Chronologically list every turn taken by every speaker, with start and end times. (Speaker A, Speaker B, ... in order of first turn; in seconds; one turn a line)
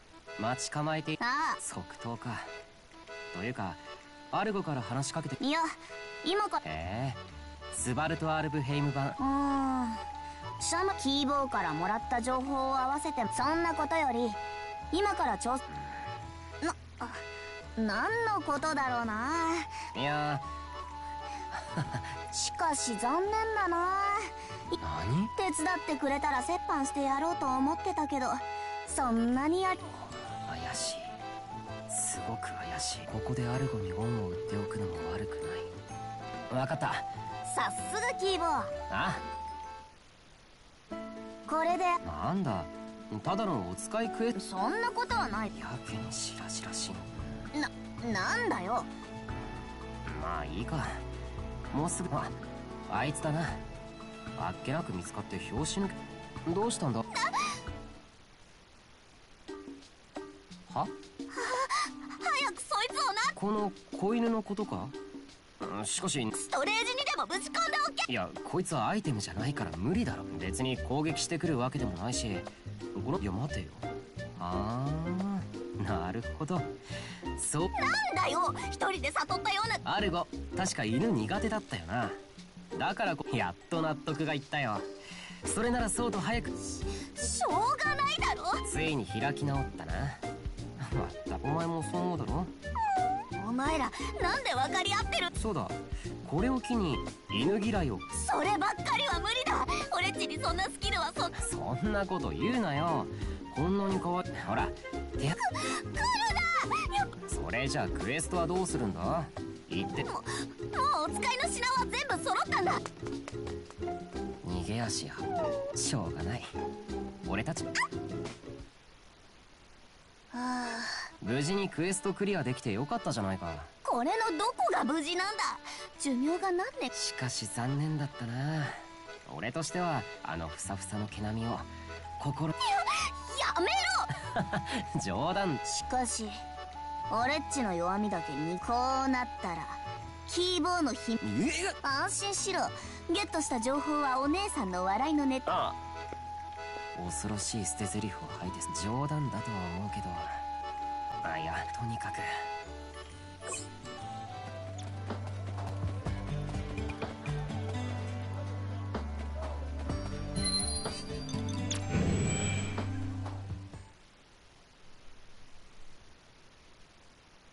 Speaker A: 0.4-2.5
Speaker B: 1.2-1.6
Speaker A: 3.3-5.4
Speaker B: 5.4-6.6
Speaker A: 6.6-7.2
Speaker A: 7.7-9.2
Speaker B: 9.2-10.0
Speaker B: 10.6-14.4
Speaker B: 14.9-15.6
Speaker B: 16.6-17.2
Speaker B: 17.8-19.7
Speaker A: 19.9-20.4
Speaker A: 21.5-22.1
Speaker B: 22.3-24.3
Speaker A: 24.8-25.3
Speaker B: 25.3-29.9
Speaker A: 30.2-31.2
Speaker A: 31.9-35.8
Speaker A: 36.5-37.1
Speaker B: 37.5-38.7
Speaker A: 38.9-39.2
Speaker B: 41.5-42.0
Speaker A: 42.0-44.4
Speaker B: 44.4-45.5
Speaker A: 45.5-47.5
Speaker B: 47.5-48.9
Speaker A: 50.1-51.0
Speaker A: 51.7-52.4
Speaker A: 52.9-53.6
Speaker A: 54.4-57.1
Speaker B: 57.2-57.5
Speaker A: 60.7-60.9
Speaker B: 61.3-63.3
Speaker A: 63.4-65.0
Speaker A: 65.6-66.3
Speaker B: 66.3-68.1
Speaker A: 68.1-73.8
Speaker A: 74.4-76.8
Speaker A: 77.4-77.7
Speaker B: 77.7-79.8
Speaker A: 79.8-82.2
Speaker A: 82.7-84.9
Speaker A: 85.4-86.5
Speaker B: 86.7-88.6
Speaker A: 88.6-90.2
Speaker A: 90.8-92.5
Speaker B: 93.3-95.3
Speaker A: 95.3-98.1
Speaker B: 98.1-101.3
Speaker A: 101.4-105.4
Speaker B: 105.5-107.1
Speaker A: 107.3-110.1
Speaker B: 110.0-112.8
Speaker A: 114.4-116.5
Speaker A: 117.2-117.7
Speaker B: 120.3-121.0
Speaker A: 121.2-123.7
Speaker B: 123.8-126.9
Speaker A: 126.9-132.5
Speaker B: 132.7-134.1
Speaker A: 134.3-135.6
Speaker B: 135.7-136.4
Speaker B: 137.1-141.2
Speaker A: 141.2-141.8
Speaker B: 141.8-145.6
Speaker A: 145.5-145.8
Speaker A: 146.9-150.4
Speaker A: 151.2-152.3